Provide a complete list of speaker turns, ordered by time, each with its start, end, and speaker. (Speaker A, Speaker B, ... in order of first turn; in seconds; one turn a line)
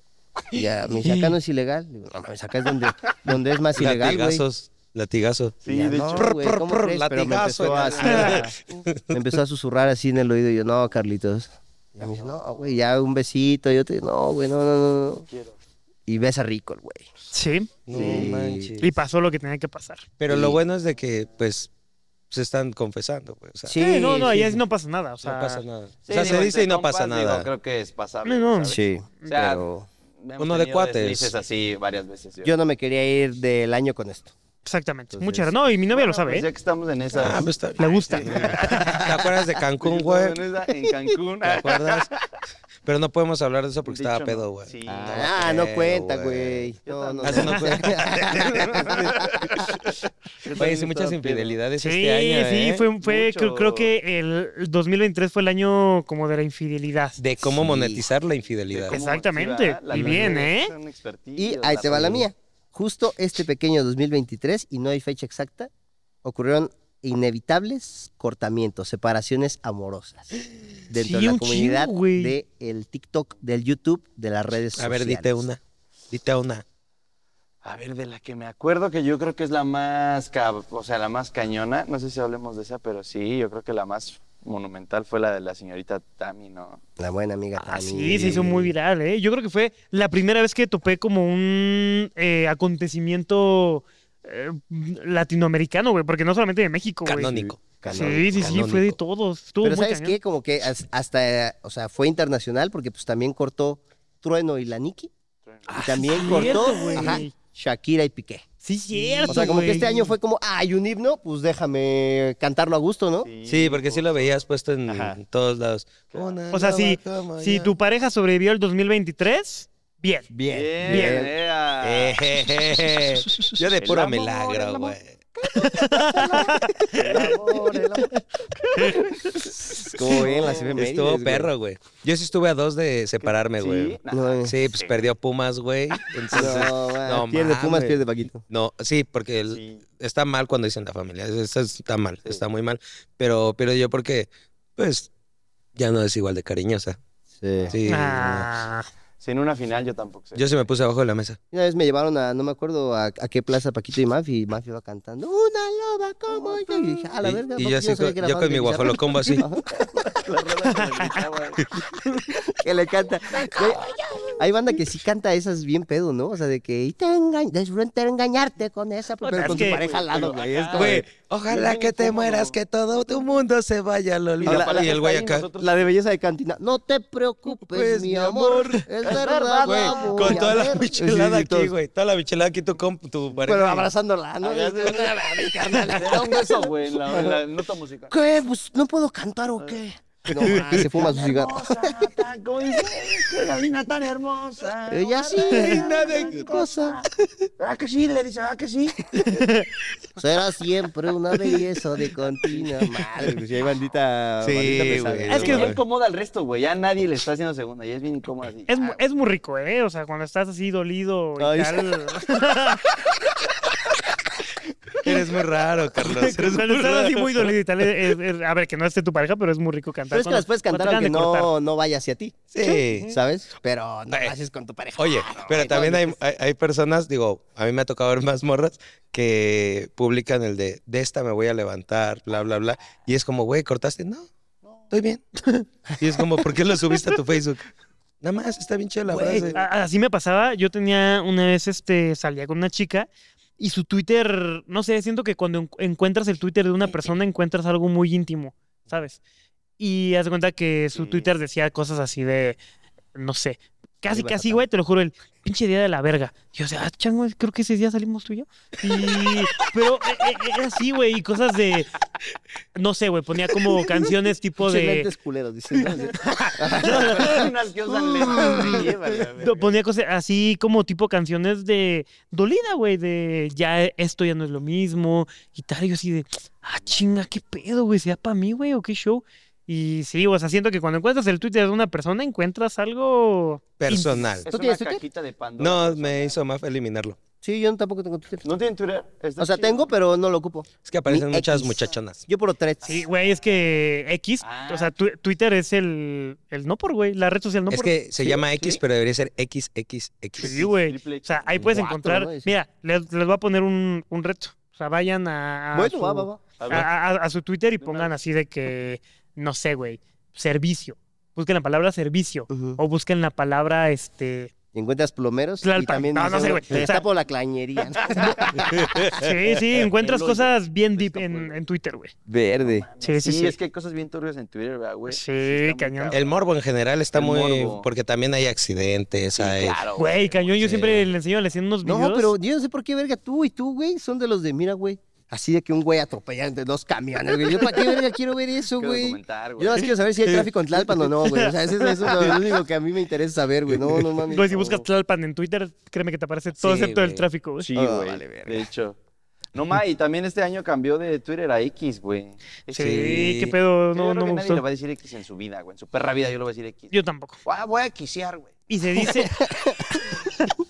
Speaker A: 0.5-4.4
Speaker B: 1.1-1.4
Speaker C: 3.8-9.2
Speaker D: 5.6-6.4
Speaker A: 5.7-15.3
Speaker D: 7.6-8.5
Speaker D: 12.0-12.3
Speaker D: 15.3-15.6
Speaker A: 16.1-17.1
Speaker B: 17.3-17.7
Speaker C: 17.9-18.9
Speaker D: 17.9-18.3
Speaker A: 17.9-18.8
Speaker B: 18.8-20.0
Speaker C: 20.2-21.7
Speaker A: 20.3-20.6
Speaker C: 22.3-24.5
Speaker A: 23.7-24.6
Speaker B: 23.8-25.6
Speaker C: 25.2-27.5
Speaker D: 26.1-29.7
Speaker B: 28.2-28.8
Speaker A: 28.7-29.9
Speaker D: 30.2-32.5
Speaker C: 30.4-31.3
Speaker A: 32.4-34.3
Speaker B: 34.6-36.5
Speaker A: 35.1-35.5
Speaker D: 35.9-39.2
Speaker C: 37.2-40.4
Speaker B: 37.8-39.0
Speaker D: 39.8-42.3
Speaker C: 41.4-42.1
Speaker C: 42.9-50.0
Speaker D: 43.9-45.6
Speaker A: 44.9-49.7
Speaker D: 46.9-49.5
Speaker B: 47.4-47.7
Speaker D: 50.4-51.6
Speaker C: 50.5-52.9
Speaker A: 50.6-50.9
Speaker B: 51.8-57.2
Speaker D: 53.0-53.9
Speaker C: 57.2-59.0
Speaker A: 57.4-58.1
Speaker D: 58.7-62.2
Speaker B: 58.9-60.7
Speaker A: 59.9-60.4
Speaker A: 61.4-65.7
Speaker A: 66.2-75.5
Speaker B: 70.9-72.4
Speaker C: 74.8-75.6
Speaker C: 76.1-76.6
Speaker D: 77.6-86.8
Speaker A: 87.0-88.7
Speaker B: 87.6-97.4
Speaker C: 88.2-88.4
Speaker C: 97.1-99.0
Speaker A: 97.4-98.7
Speaker B: 97.9-100.2
Speaker A: 99.6-105.1
Speaker D: 105.5-107.1
Speaker B: 105.7-107.3
Speaker A: 105.7-108.5
Speaker B: 108.6-110.1
Speaker A: 109.2-113.3
Speaker D: 113.2-114.3
Speaker C: 113.5-117.7
Speaker A: 114.9-115.2
Speaker B: 116.5-120.3
Speaker A: 120.3-121.3
Speaker D: 120.5-122.2
Speaker B: 120.9-121.2
Speaker C: 121.8-125.2
Speaker D: 123.5-125.0
Speaker B: 125.5-127.3
Speaker A: 125.6-126.7
Speaker D: 126.9-129.4
Speaker A: 127.5-128.1
Speaker B: 128.8-129.1
Speaker A: 129.6-131.5
Speaker D: 130.0-130.8
Speaker C: 130.2-145.1
Speaker D: 133.2-135.0
Speaker A: 134.1-134.6
Speaker D: 136.1-136.7
Speaker A: 136.3-138.4
Speaker D: 139.5-139.8
Speaker C: 145.8-147.0
Speaker A: 147.4-147.7
Speaker C: 147.7-148.5
Speaker B: 147.9-148.9
Speaker D: 149.2-150.6
Speaker C: 150.4-151.4
Speaker A: 151.5-159.7
Speaker C: 157.2-159.4
Speaker D: 159.7-161.8
Speaker A: 162.4-171.1
Speaker D: 163.6-164.4
Speaker B: 169.2-169.8
Speaker D: 169.4-172.6
Speaker C: 170.7-175.5
Speaker D: 174.4-175.8
Speaker A: 174.4-175.0
Speaker A: 175.6-181.7
Speaker C: 177.5-183.9
Speaker D: 179.0-180.8
Speaker D: 183.3-183.6
Speaker A: 183.4-187.4
Speaker D: 184.4-188.1
Speaker A: 188.1-192.1
Speaker C: 190.3-190.9
Speaker D: 190.4-199.2
Speaker A: 194.9-197.0
Speaker C: 195.6-196.4
Speaker B: 199.2-199.7
Speaker A: 200.2-205.8
Speaker C: 204.4-205.8
Speaker D: 205.2-209.0
Speaker B: 205.3-205.7
Speaker B: 208.7-212.9
Speaker A: 211.4-212.0
Speaker C: 215.0-217.5
Speaker B: 216.1-221.5
Speaker A: 220.1-222.4
Speaker C: 222.5-223.1
Speaker B: 222.6-223.1
Speaker A: 223.1-226.2
Speaker C: 225.0-234.3
Speaker C: 234.9-235.2
Speaker B: 235.4-235.7
Speaker C: 236.0-237.7
Speaker C: 238.2-239.6
Speaker A: 239.1-239.5
Speaker B: 239.1-243.1
Speaker B: 243.6-249.2
Speaker B: 249.8-252.6
Speaker D: 250.9-251.3
Speaker B: 253.2-261.9
Speaker A: 254.1-254.7
Speaker B: 262.8-265.1
Speaker A: 264.6-267.5
Speaker D: 265.8-266.1
Speaker B: 266.2-267.4
Speaker D: 266.8-269.7
Speaker A: 268.3-268.9
Speaker B: 268.3-268.8
Speaker B: 269.4-284.4
Speaker C: 283.8-284.5
Speaker D: 284.4-286.4
Speaker A: 284.5-285.0
Speaker C: 285.6-287.2
Speaker A: 287.4-288.5
Speaker D: 288.4-289.9
Speaker A: 289.4-293.1
Speaker C: 290.9-292.2
Speaker B: 292.9-298.4
Speaker D: 294.4-294.9
Speaker C: 297.7-300.7
Speaker D: 298.5-298.8
Speaker B: 300.4-314.5
Speaker D: 300.4-301.7
Speaker A: 301.6-302.6
Speaker A: 305.7-306.4
Speaker D: 306.6-306.9
Speaker D: 307.8-308.1
Speaker A: 312.5-312.8
Speaker A: 314.7-319.1
Speaker B: 315.6-317.1
Speaker B: 318.3-322.1
Speaker C: 318.8-319.2
Speaker D: 320.0-321.6
Speaker A: 322.3-322.9
Speaker D: 322.6-326.5
Speaker B: 323.0-323.6
Speaker B: 325.1-326.2
Speaker C: 326.1-329.8
Speaker D: 327.1-327.9
Speaker D: 329.4-331.0
Speaker B: 330.0-332.3
Speaker C: 330.6-331.1
Speaker A: 331.8-344.9
Speaker D: 338.8-340.0
Speaker B: 341.2-342.1
Speaker B: 344.3-347.7
Speaker C: 346.6-347.2
Speaker D: 347.6-349.0
Speaker A: 347.7-348.7
Speaker D: 349.5-353.3
Speaker B: 352.7-354.6
Speaker C: 352.8-353.6
Speaker D: 353.9-356.9
Speaker B: 356.9-357.4
Speaker D: 357.4-358.5
Speaker B: 358.7-359.5
Speaker A: 359.2-360.0